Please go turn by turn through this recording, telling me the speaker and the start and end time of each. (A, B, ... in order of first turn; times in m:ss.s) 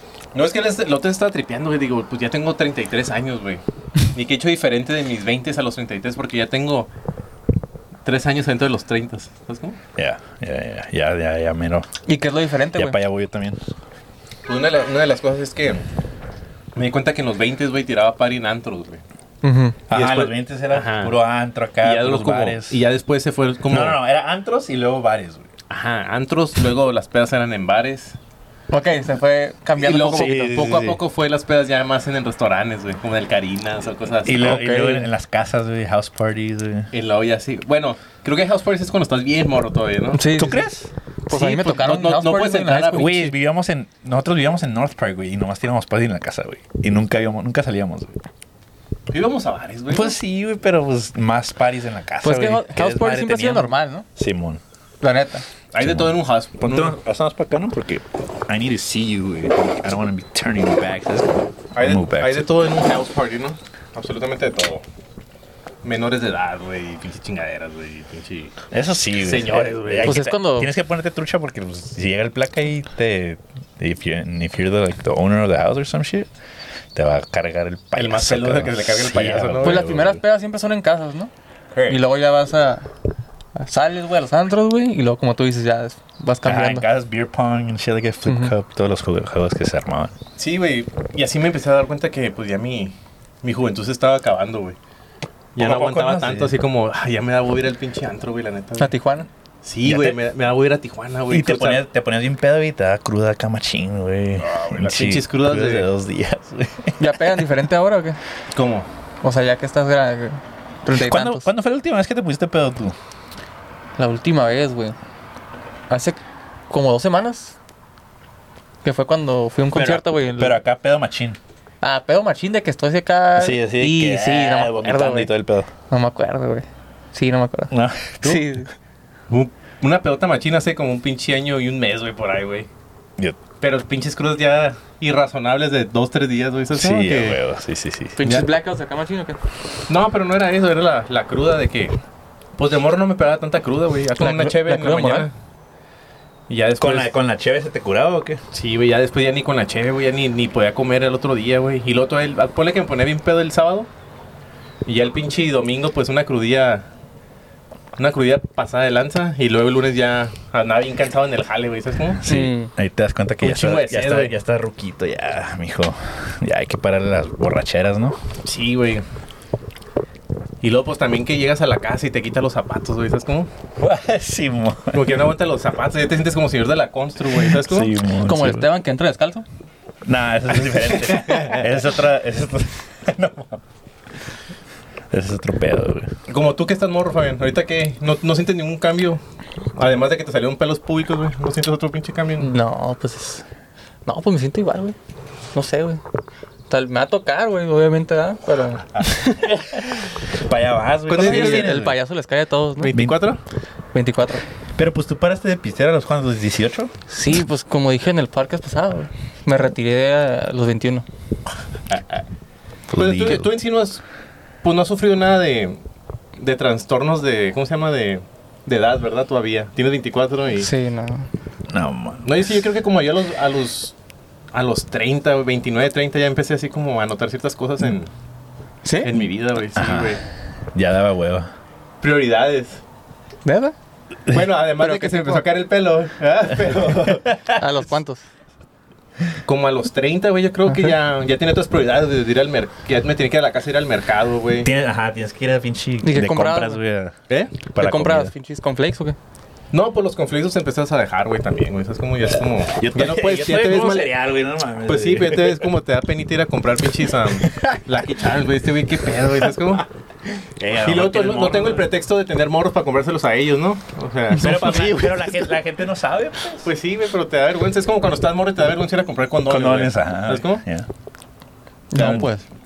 0:00.3-0:06.9 A
0:08.0-0:09.8 A
0:10.0-0:11.9 B
0:12.0-0:13.0 C
0:12.7-0:13.6 B
0:14.5-0:15.8 A
0:16.8-0:19.0 A
0:19.4-0:19.8 C
0:19.9-0:22.8 B
0:19.9-0:21.2 A
0:21.8-0:24.0 A
0:23.7-0:25.5 B
0:25.7-0:28.2 A
0:28.7-0:30.8 C
0:29.8-0:34.6 A
0:29.8-0:31.0 B
0:34.2-0:36.9 B
0:34.4-0:35.1 C
0:36.9-0:40.3 A
0:40.1-0:40.7 C
0:40.3-0:40.9 B
0:41.3-0:43.2 A
0:41.3-0:43.3 C
0:42.9-0:48.2 B
0:49.1-0:50.2 A
0:49.9-0:54.6 B
0:52.2-0:54.0 C
0:55.0-0:55.4 C
0:55.7-0:56.9 A
0:55.8-1:02.5 B
1:01.7-1:04.8 A
1:05.8-1:08.6 A
1:08.7-1:16.3 B
1:09.2-1:10.2 A
1:10.0-1:10.7 C
1:16.9-1:20.2 B
1:18.0-1:19.8 A
1:19.6-1:21.3 C
1:21.7-1:22.0 B
1:21.9-1:22.9 C
1:23.6-1:26.8 C
1:26.4-1:30.1 B
1:28.2-1:28.5 C
1:30.4-1:34.8 A
1:35.5-1:38.9 A
1:35.6-1:36.6 B
1:38.8-1:39.3 C
1:39.6-1:41.8 A
1:39.8-1:40.2 B
1:41.3-1:47.5 B
1:44.4-1:45.9 A
1:47.0-1:48.2 C
1:48.5-1:48.9 A
1:49.2-1:51.5 C
1:50.9-1:52.9 B
1:54.0-1:55.0 C
1:55.9-1:56.2 C
1:56.7-1:57.5 C
1:58.8-2:00.6 C
1:59.7-2:01.4 B
2:01.8-2:05.3 C
2:03.4-2:05.7 B
2:05.9-2:08.7 C
2:07.7-2:08.4 B
2:09.3-2:12.7 A
2:13.6-2:17.4 A
2:16.7-2:18.2 B
2:18.2-2:19.4 C
2:18.2-2:18.5 A
2:19.9-2:22.0 A
2:22.6-2:25.3 A
2:24.2-2:25.3 C
2:26.5-2:27.1 A
2:26.8-2:28.4 B
2:28.5-2:33.9 A
2:34.8-2:36.9 A
2:38.0-2:42.2 A
2:42.2-2:48.2 B
2:42.2-2:42.7 C
2:43.4-2:44.3 A
2:48.4-2:49.0 A
2:50.6-2:53.5 A
2:53.8-2:55.1 B
2:54.9-2:57.9 A
2:57.5-2:58.7 B
2:58.2-2:59.4 C
3:00.0-3:03.6 B
3:00.6-3:01.6 A
3:05.1-3:06.1 B
3:06.3-3:09.2 A
3:09.7-3:12.5 A
3:12.4-3:13.4 C
3:14.0-3:14.9 C
3:15.5-3:16.0 C
3:16.7-3:19.6 C
3:19.4-3:22.0 B
3:21.1-3:21.7 A
3:21.2-3:23.0 C
3:22.8-3:23.4 A
3:23.9-3:24.4 C
3:24.8-3:26.9 B
3:27.1-3:31.0 C
3:31.9-3:32.2 A
3:32.9-3:33.5 B
3:32.9-3:34.0 A
3:34.6-3:35.8 A
3:36.4-3:40.7 A
3:40.6-3:41.3 C
3:41.7-3:42.6 B
3:42.2-3:43.9 A
3:44.5-3:48.1 A
3:48.8-3:49.1 C
3:49.0-3:50.2 A
3:49.7-3:50.2 B
3:50.7-3:51.5 B
3:52.0-3:52.8 A
3:53.4-3:53.7 C
3:54.3-3:57.4 A
3:54.8-3:55.4 C
3:56.6-3:57.6 B
3:57.4-3:58.2 C
3:59.4-4:04.7 A
4:04.6-4:07.2 B
4:06.0-4:06.8 C
4:07.3-4:07.5 A
4:07.7-4:08.3 B
4:07.7-4:09.2 C
4:09.7-4:14.1 A
4:12.8-4:15.7 B
4:14.8-4:19.8 A
4:17.4-4:17.8 B
4:19.6-4:21.9 B
4:20.8-4:25.5 A
4:24.3-4:26.7 B
4:26.6-4:30.6 A
4:29.5-4:30.9 B
4:31.9-4:32.4 C
4:31.9-4:32.3 B
4:32.0-4:32.3 A